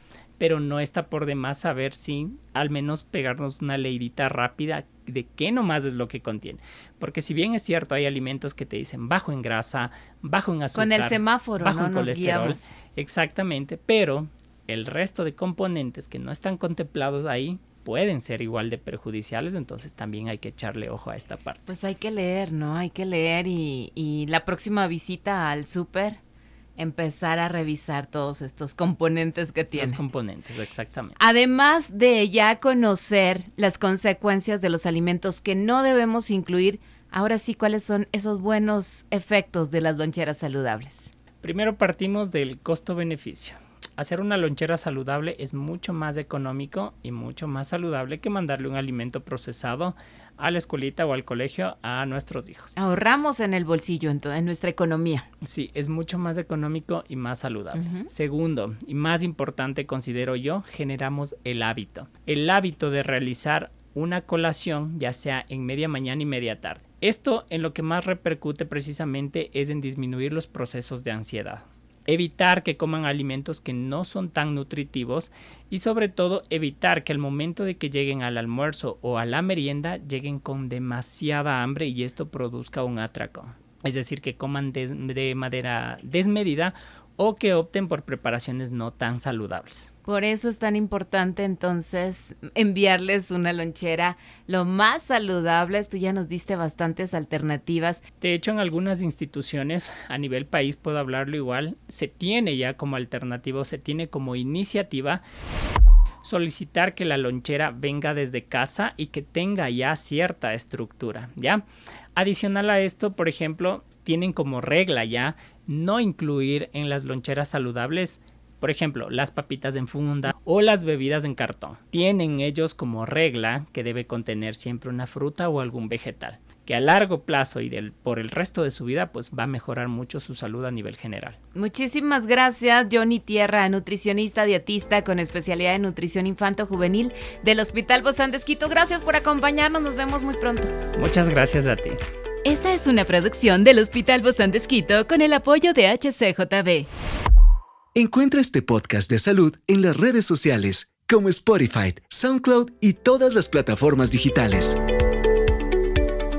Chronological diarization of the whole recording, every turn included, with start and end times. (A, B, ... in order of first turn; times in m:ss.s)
0:00.4-0:21.8 A
0:10.8-0:12.7 B
0:21.7-0:26.2 B
0:26.8-0:30.0 B
0:29.8-0:31.2 A
0:31.2-0:41.1 B
0:41.4-0:52.8 A
0:52.8-0:55.3 B
0:55.4-1:29.9 A
0:57.8-0:58.1 B
1:30.1-1:38.0 B
1:38.2-1:45.2 A
1:46.2-1:51.6 A
1:52.2-2:11.4 A
2:11.6-2:20.7 B
2:21.0-2:22.0 A
2:22.4-2:26.9 B
2:28.0-2:34.8 C